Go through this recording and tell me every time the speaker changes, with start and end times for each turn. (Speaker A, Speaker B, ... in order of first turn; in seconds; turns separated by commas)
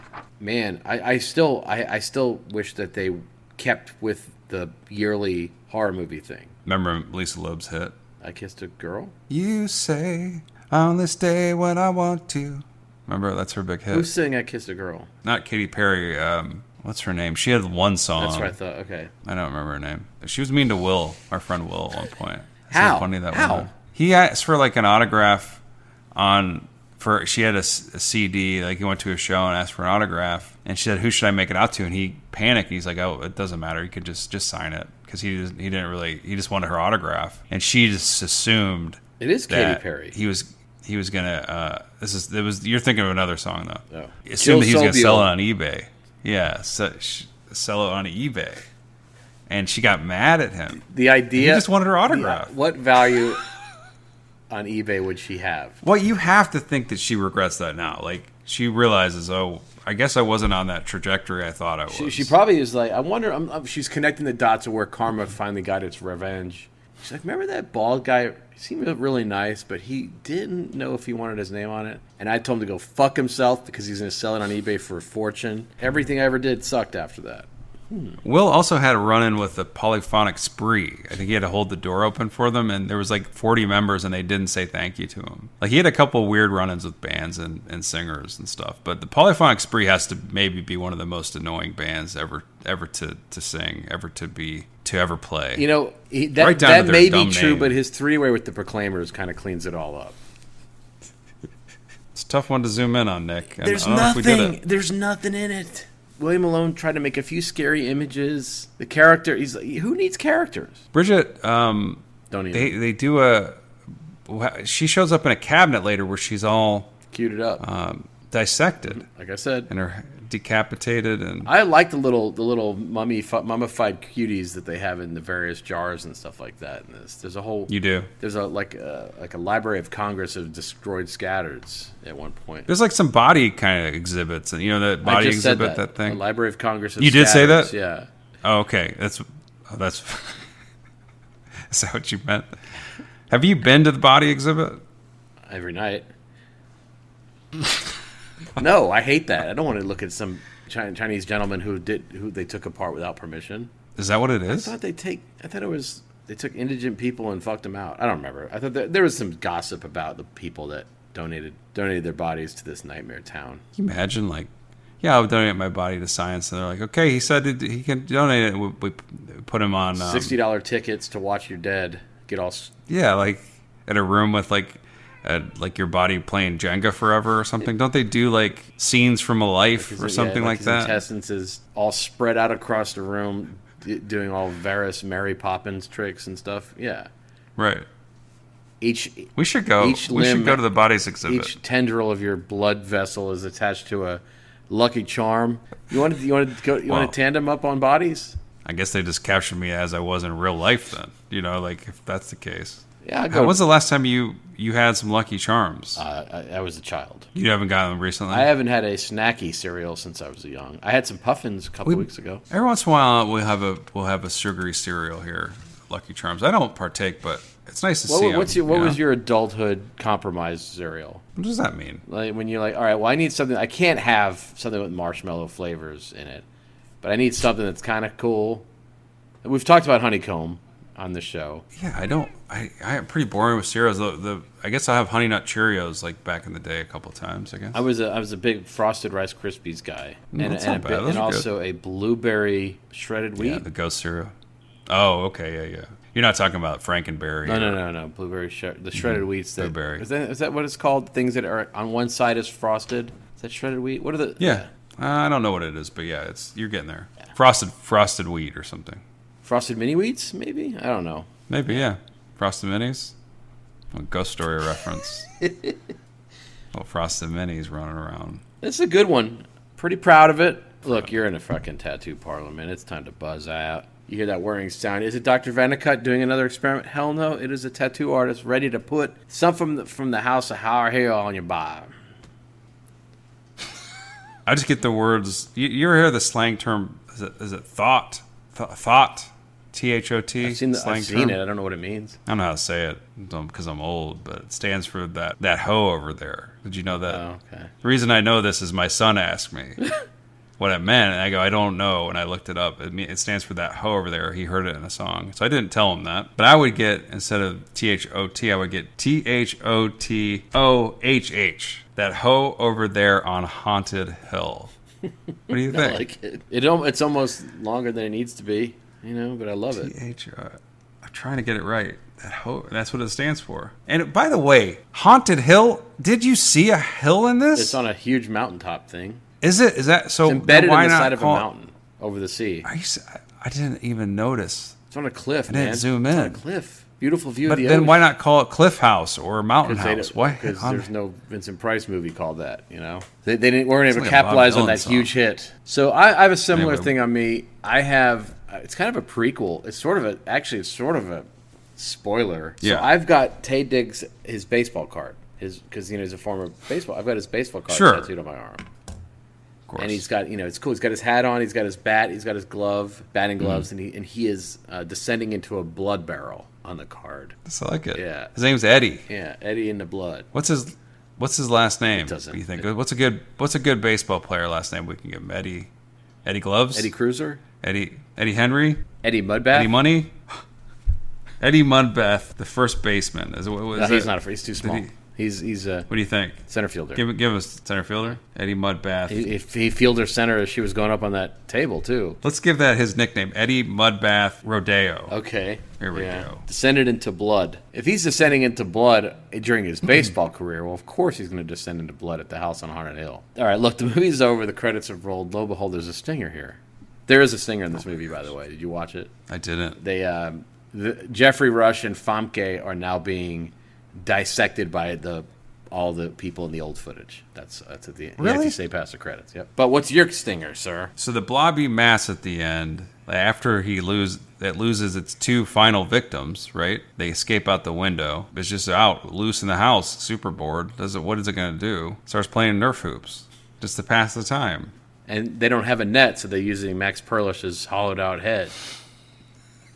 Speaker A: 0.4-6.5, Speaker B: 6.7-7.9, Speaker A: 8.2-9.1, Speaker B: 9.3-14.1, Speaker A: 13.9-15.1, Speaker B: 15.2-18.5, Speaker A: 18.2-19.1, Speaker B: 19.2-25.6, Speaker A: 22.7-23.7, Speaker B: 26.1-48.6, Speaker A: 39.2-40.1, Speaker A: 43.9-45.3, Speaker B: 49.5-50.8, Speaker A: 50.8-53.4, Speaker B: 51.4-52.5, Speaker A: 54.5-55.8, Speaker B: 55.8-62.3, Speaker A: 61.9-78.2, Speaker B: 78.2-95.7, Speaker A: 95.6-100.2, Speaker B: 96.4-97.8, Speaker B: 102.1-104.6, Speaker A: 103.6-110.8, Speaker B: 110.9-112.0, Speaker A: 112.3-112.8, Speaker B: 112.5-113.6, Speaker B: 114.3-117.0, Speaker A: 117.1-117.6, Speaker B: 117.6-119.0, Speaker A: 118.9-119.7, Speaker B: 119.7-121.5, Speaker A: 121.5-132.7, Speaker B: 127.7-128.1, Speaker B: 132.7-136.2, Speaker A: 135.0-138.1, Speaker B: 137.0-137.7, Speaker B: 138.4-140.5, Speaker B: 141.7-142.6, Speaker B: 143.3-144.8, Speaker A: 145.5-146.1, Speaker A: 148.6-153.7, Speaker B: 154.0-154.7, Speaker A: 154.5-163.6, Speaker B: 163.8-164.5, Speaker B: 165.0-170.3, Speaker A: 169.9-172.7, Speaker B: 172.9-181.0, Speaker A: 179.8-187.1, Speaker B: 187.6-187.9, Speaker A: 188.8-190.6, Speaker B: 189.4-191.5, Speaker A: 191.2-198.4, Speaker B: 196.9-197.1, Speaker B: 198.7-206.0, Speaker A: 203.0-203.6, Speaker A: 206.0-207.3, Speaker B: 207.3-208.5, Speaker A: 208.3-212.4, Speaker B: 211.9-219.0, Speaker A: 218.1-221.2, Speaker B: 221.4-222.0, Speaker A: 222.1-226.4, Speaker A: 227.0-228.7, Speaker A: 229.4-231.7, Speaker B: 231.8-237.8, Speaker A: 237.7-243.6, Speaker B: 240.3-241.5, Speaker B: 243.4-244.3, Speaker B: 244.9-247.8, Speaker A: 247.4-254.7, Speaker B: 249.1-250.1, Speaker B: 254.4-259.0, Speaker A: 259.4-261.8, Speaker B: 261.5-263.1, Speaker B: 263.9-265.3, Speaker A: 265.4-265.7, Speaker B: 266.7-268.4, Speaker A: 268.6-281.9, Speaker B: 284.5-291.4, Speaker A: 290.4-292.2, Speaker B: 292.3-297.2, Speaker A: 297.1-297.7, Speaker B: 297.8-299.8, Speaker B: 300.6-314.7, Speaker A: 315.5-319.9, Speaker B: 315.5-316.0, Speaker B: 319.8-327.8, Speaker A: 327.6-329.2, Speaker B: 329.4-331.4, Speaker A: 330.2-332.7, Speaker B: 332.6-334.8, Speaker A: 334.9-338.1, Speaker B: 335.5-336.4, Speaker B: 337.5-340.9, Speaker A: 339.6-358.6, Speaker B: 343.9-345.1, Speaker B: 346.5-346.9, Speaker B: 352.6-352.9, Speaker B: 357.7-358.1, Speaker B: 359.7-360.0, Speaker A: 359.8-367.4, Speaker B: 363.4-363.7, Speaker B: 367.5-369.1, Speaker A: 367.9-368.3, Speaker A: 369.1-370.3, Speaker B: 370.3-375.7, Speaker A: 371.9-372.6, Speaker B: 376.2-376.9, Speaker A: 376.7-377.4, Speaker B: 377.6-378.8, Speaker A: 379.0-379.7, Speaker B: 379.5-380.2, Speaker B: 381.4-384.9, Speaker A: 383.7-385.9, Speaker B: 385.9-386.4, Speaker A: 386.5-387.0, Speaker B: 387.0-389.3, Speaker A: 389.1-392.2, Speaker B: 392.2-395.1, Speaker A: 395.1-409.1, Speaker B: 395.8-396.4, Speaker B: 409.3-409.8, Speaker A: 409.8-420.9, Speaker B: 418.2-418.6, Speaker B: 421.0-434.7, Speaker A: 435.1-438.6